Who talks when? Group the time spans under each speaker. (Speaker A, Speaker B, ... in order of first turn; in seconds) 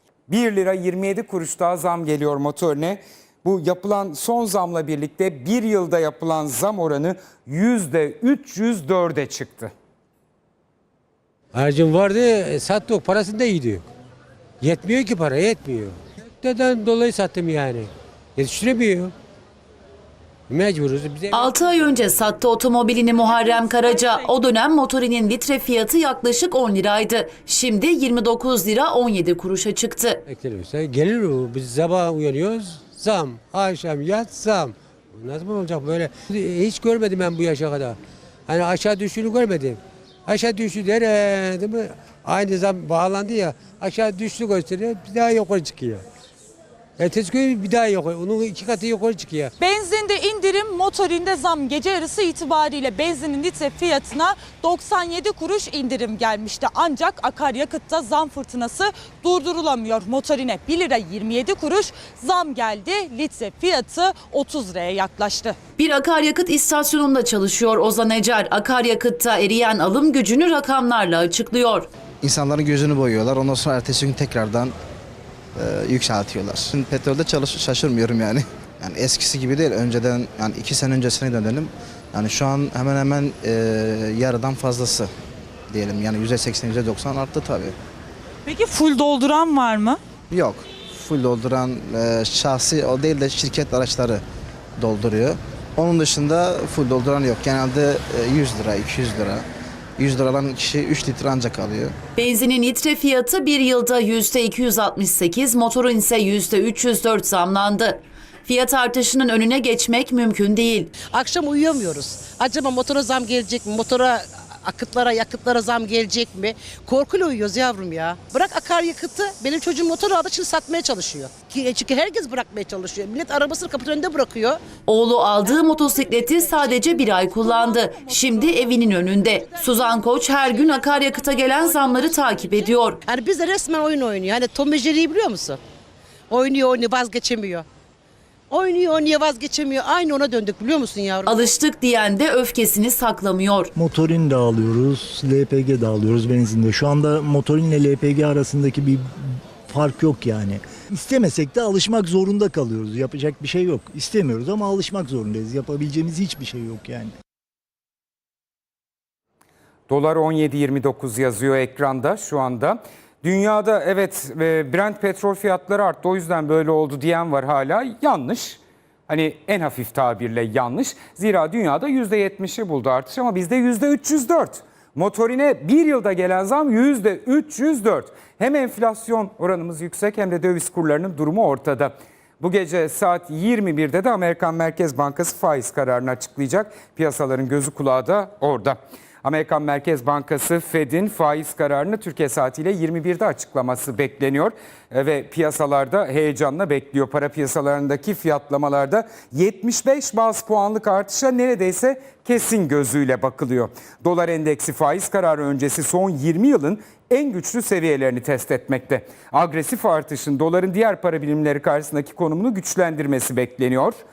Speaker A: 0.3-9.7, 159.9-214.0
Speaker B: 11.5-13.9, 14.6-19.1, 20.5-22.0, 30.3-46.0, 47.0-49.5
Speaker C: 21.3-30.2, 65.8-71.9, 102.2-110.9, 124.9-133.0, 141.3-143.7
Speaker D: 23.4-24.2, 49.6-65.6, 88.5-90.0, 127.4-127.7
Speaker E: 72.2-74.8, 75.6-85.1, 85.7-87.7, 90.3-94.2, 94.8-99.5, 100.0-101.9
Speaker F: 111.1-124.6, 130.7-132.4, 133.1-135.6, 136.3-137.7, 138.5-141.3
Speaker G: 143.8-157.1